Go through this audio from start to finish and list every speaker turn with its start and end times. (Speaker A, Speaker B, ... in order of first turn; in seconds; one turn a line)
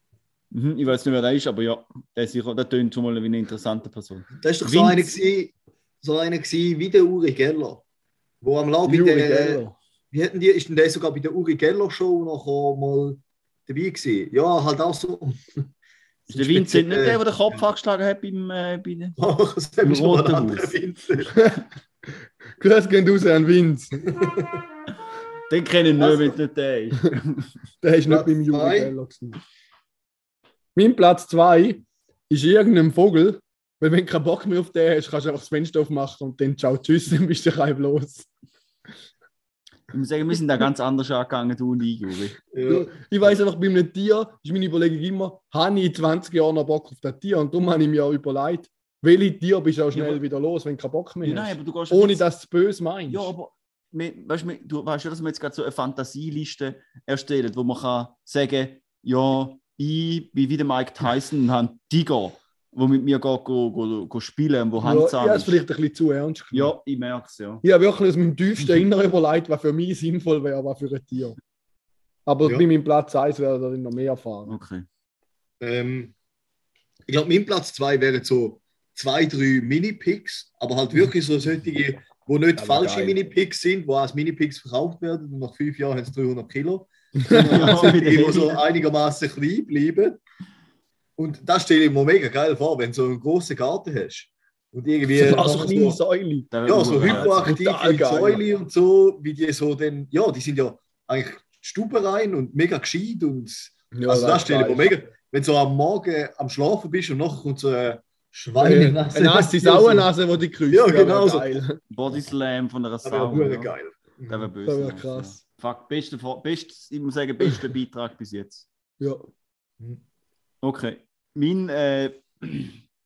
Speaker A: 0.5-5.1
Speaker B: 4.4-7.8
Speaker B: 8.4-9.6
Speaker C: 8.8-9.7
Speaker B: 10.1-15.4
Speaker B: 16.3-17.6
Speaker A: 16.3-19.2
Speaker B: 19.2-21.3
Speaker A: 19.8-20.7
Speaker C: 21.3-21.6
Speaker C: 22.6-24.1
Speaker B: 24.1-24.6
Speaker A: 25.5-27.5
Speaker B: 26.0-26.4
Speaker C: 27.8-29.4
Speaker B: 28.1-28.9
Speaker C: 30.7-38.3
Speaker A: 39.9-42.4
Speaker B: 42.5-42.9
Speaker C: 42.6-53.3
Speaker A: 49.9-50.2
Speaker A: 51.2-52.2
Speaker A: 53.1-65.6
Speaker C: 64.8-66.7
Speaker A: 66.5-67.6
Speaker C: 67.6-71.4
Speaker C: 72.2-74.5
Speaker A: 74.5-74.8
Speaker B: 75.6-76.1
Speaker B: 77.1-90.2
Speaker C: 82.6-83.1
Speaker C: 87.2-87.8
Speaker A: 87.5-88.6
Speaker B: 91.2-96.0
Speaker C: 95.1-96.5
Speaker A: 96.5-97.5
Speaker B: 96.7-110.1
Speaker C: 97.0-98.4
Speaker C: 103.9-105.0
Speaker C: 108.6-111.8
Speaker B: 110.7-111.6
Speaker A: 111.9-113.7
Speaker B: 113.0-114.5
Speaker A: 114.3-118.7
Speaker C: 114.6-115.4
Speaker A: 120.6-122.8